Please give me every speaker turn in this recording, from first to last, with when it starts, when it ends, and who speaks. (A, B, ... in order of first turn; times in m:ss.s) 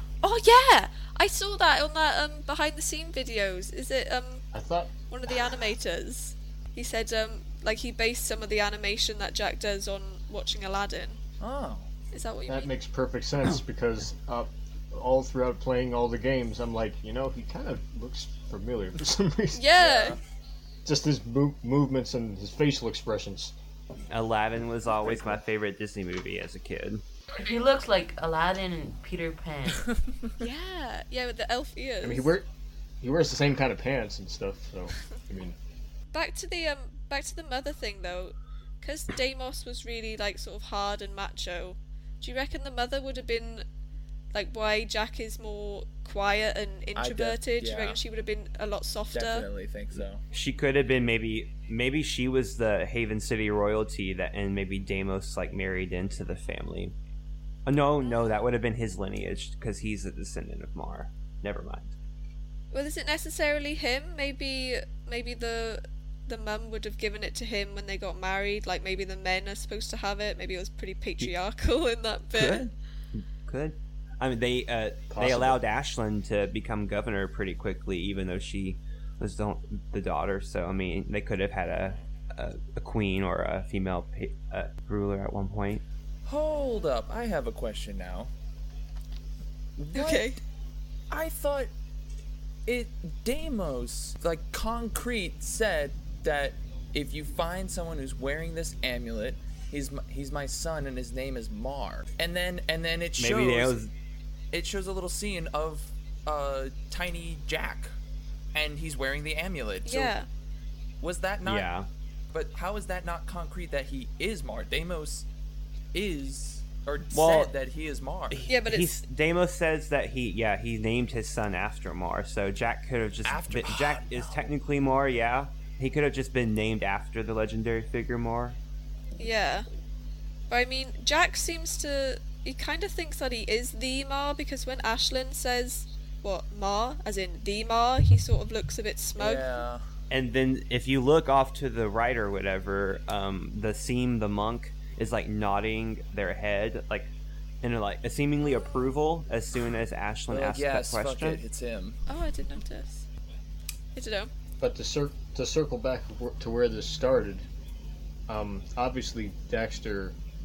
0:00.2-0:04.4 A
0:04.5-0:04.9 B
0:05.1-0:11.2 A
0:11.4-0:11.9 C
0:12.1-0:12.7 A
0:12.5-0:19.7 B
0:19.5-0:20.2 A
0:19.8-0:20.2 C
0:20.8-0:23.5 B
0:24.1-0:27.0 D
0:25.0-0:25.4 B
0:27.4-0:30.0 E
0:30.4-0:32.3 A
0:32.0-0:32.4 B
0:33.0-0:35.6 B
0:36.1-0:43.6 A
0:44.3-0:49.5 A
0:47.0-0:48.0 C
0:49.1-0:50.2 C
0:50.3-0:56.9 D
0:57.6-1:01.9 D
0:58.0-0:58.4 A
1:02.7-1:12.6 A
1:12.3-1:25.8 D
1:15.1-1:15.6 B
1:26.2-1:28.3 C
1:26.5-1:26.9 A
1:29.8-1:30.3 C
1:29.9-1:30.4 A
1:31.1-1:31.7 C
1:32.6-1:43.8 C
1:43.2-1:43.9 D
1:44.5-1:47.9 C
1:48.5-1:50.1 C
1:49.8-1:50.3 A
1:51.0-1:51.7 C
1:51.4-1:51.9 D
1:52.3-1:55.3 C
1:55.9-1:58.5 C
1:57.1-1:57.5 D
1:58.3-2:08.6 D
1:58.5-1:59.0 A
2:03.2-2:04.4 C
2:09.2-2:09.6 A
2:10.5-2:19.5 A
2:19.2-2:19.8 C
2:20.1-2:27.1 D
2:27.6-2:31.4 D
2:28.4-2:28.8 A
2:30.3-2:32.0 C
2:32.1-2:33.0 A
2:33.9-2:34.3 A
2:34.6-2:37.4 B
2:38.3-2:40.2 B